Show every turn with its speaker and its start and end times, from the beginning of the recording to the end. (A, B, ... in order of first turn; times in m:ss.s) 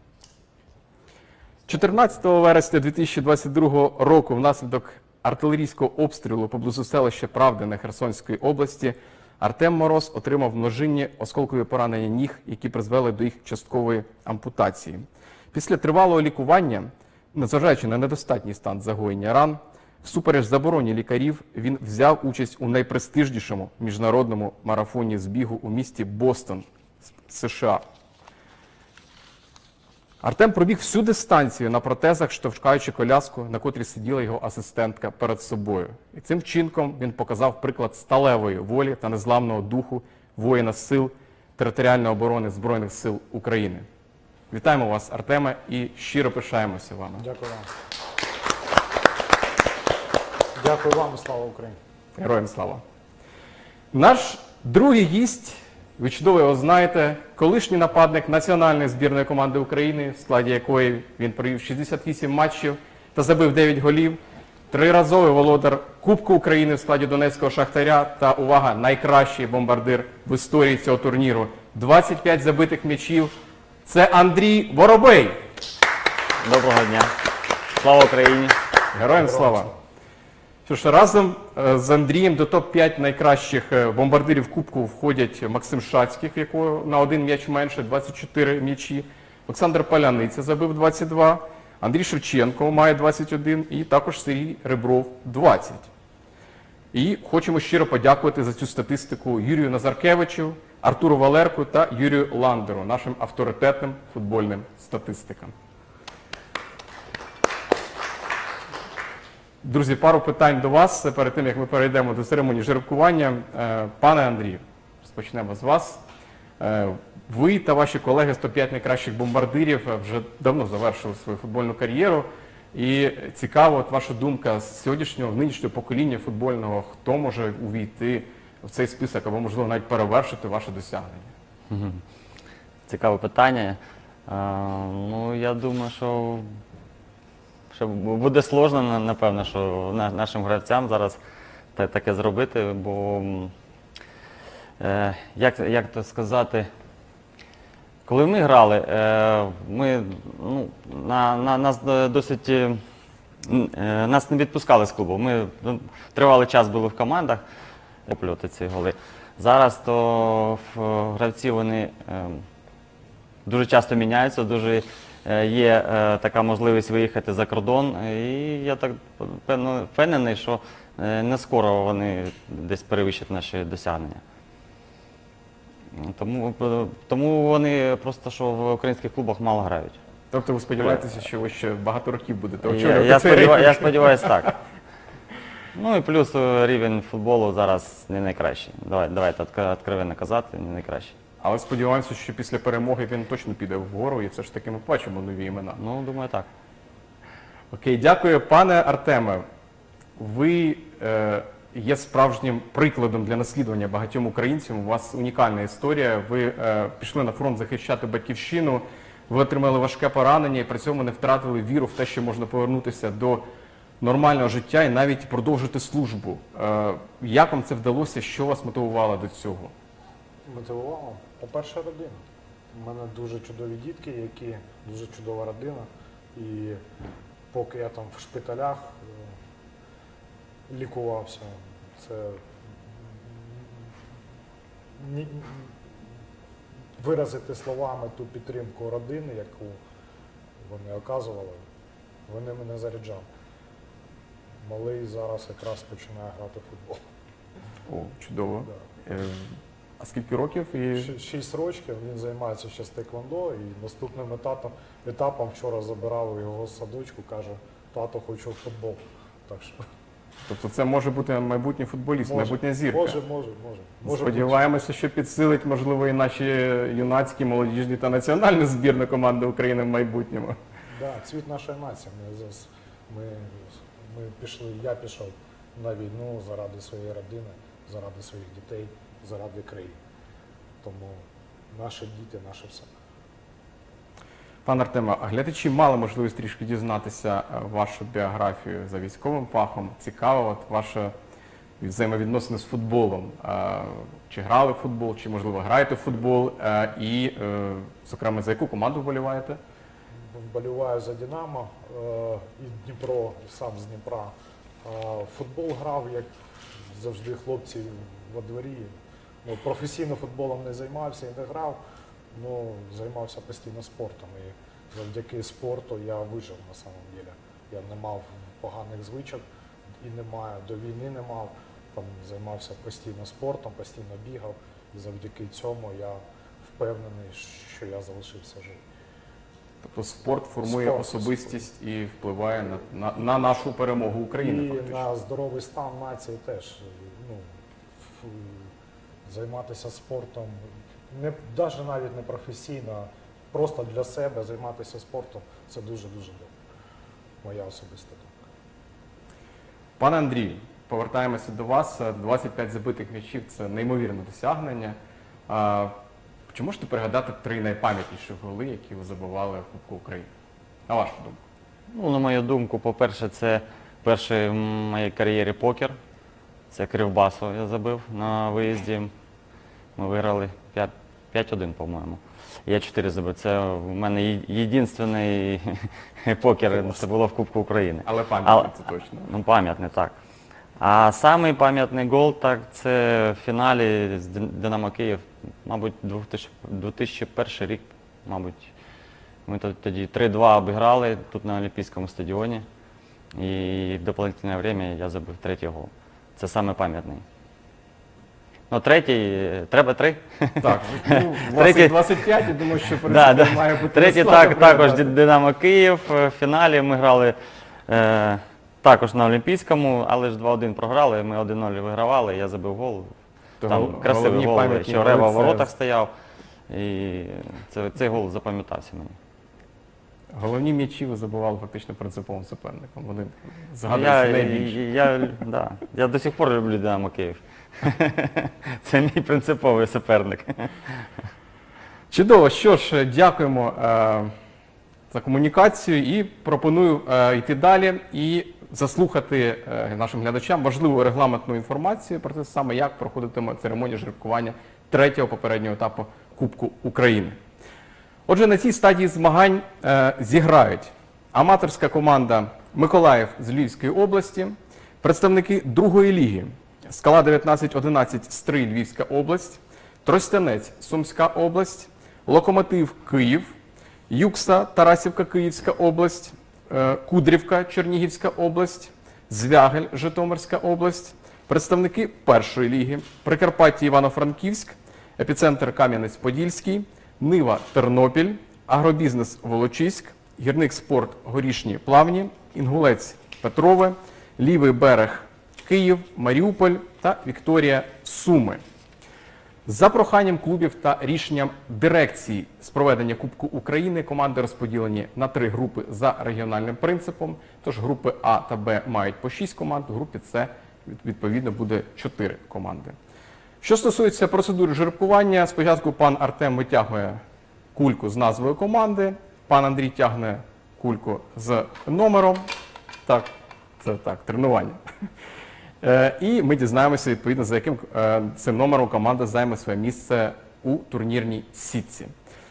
0:01.6-0:27.8 A
0:30.2-0:43.8 A
0:44.5-0:47.2 A
0:47.2-0:47.7 B
0:50.5-0:51.8 B
0:52.2-0:52.8 A
0:53.9-1:13.3 A
1:13.8-1:15.4 A
1:16.4-1:17.1 C
1:17.7-1:18.5 C
1:18.9-1:19.7 A
1:19.1-1:19.8 B
1:20.6-1:35.9 A
1:36.9-1:45.5 A
1:49.6-1:56.0 A
1:56.6-2:11.3 A
2:11.7-2:12.0 C
2:12.9-2:16.5 C
2:17.7-2:21.2 C
2:21.7-2:23.5 C
2:24.8-2:26.7 C
2:28.0-2:32.8 C
2:33.4-2:37.4 C
2:38.0-2:42.4 C
2:43.4-2:54.2 C
2:55.9-3:00.0 C
3:00.3-3:04.5 A
3:02.6-3:04.5 C
3:05.7-3:11.1 C
3:11.4-3:15.8 A
3:15.8-3:16.5 C
3:17.7-3:19.4 A
3:20.2-3:33.4 A
3:34.0-3:39.7 A
3:40.4-3:46.8 B
3:47.5-3:49.3 B
3:50.7-3:53.9 B
3:54.9-3:55.8 B
3:57.0-3:59.8 B
4:00.6-4:01.6 B
4:02.3-4:03.3 B
4:04.6-4:07.0 B
4:07.9-4:11.1 A
4:10.9-4:19.8 B
4:20.4-4:23.2 A
4:22.2-4:24.7 B
4:24.0-4:30.6 A
4:30.9-4:40.0 B
4:40.8-4:42.9 B
4:44.6-4:51.1 A
4:51.8-4:59.6 A
5:00.1-5:11.8 B
5:12.3-5:19.4 B
5:20.0-5:28.8 B
5:29.8-5:35.0 A
5:30.6-5:31.6 B
5:34.4-5:38.7 B
5:39.2-5:46.5 B
5:47.4-5:48.4 B
5:50.0-5:55.0 A
5:55.5-5:55.9 A
5:56.5-6:00.3 A
6:00.9-6:01.4 A
6:01.9-6:06.0 C
6:06.7-6:09.1 C
6:10.0-6:18.7 C
6:18.0-6:19.3 A
6:19.3-6:20.2 C
6:20.8-6:28.7 C
6:29.4-6:32.6 C
6:33.3-6:37.2 C
6:38.7-6:42.4 C
6:40.6-6:45.1 A
6:43.0-6:47.4 C
6:47.9-6:53.1 C
6:53.6-6:55.7 A
6:53.6-6:56.1 C
6:56.7-6:59.2 C
7:00.3-7:04.8 A
7:03.8-7:11.0 C
7:12.1-7:14.3 A
7:15.1-7:27.4 A
7:28.3-7:43.5 A
7:44.1-8:08.6 A
8:09.6-8:23.0 A
8:23.6-8:27.2 A
8:27.7-8:32.5 A
8:33.0-8:34.8 A
8:35.8-8:42.1 A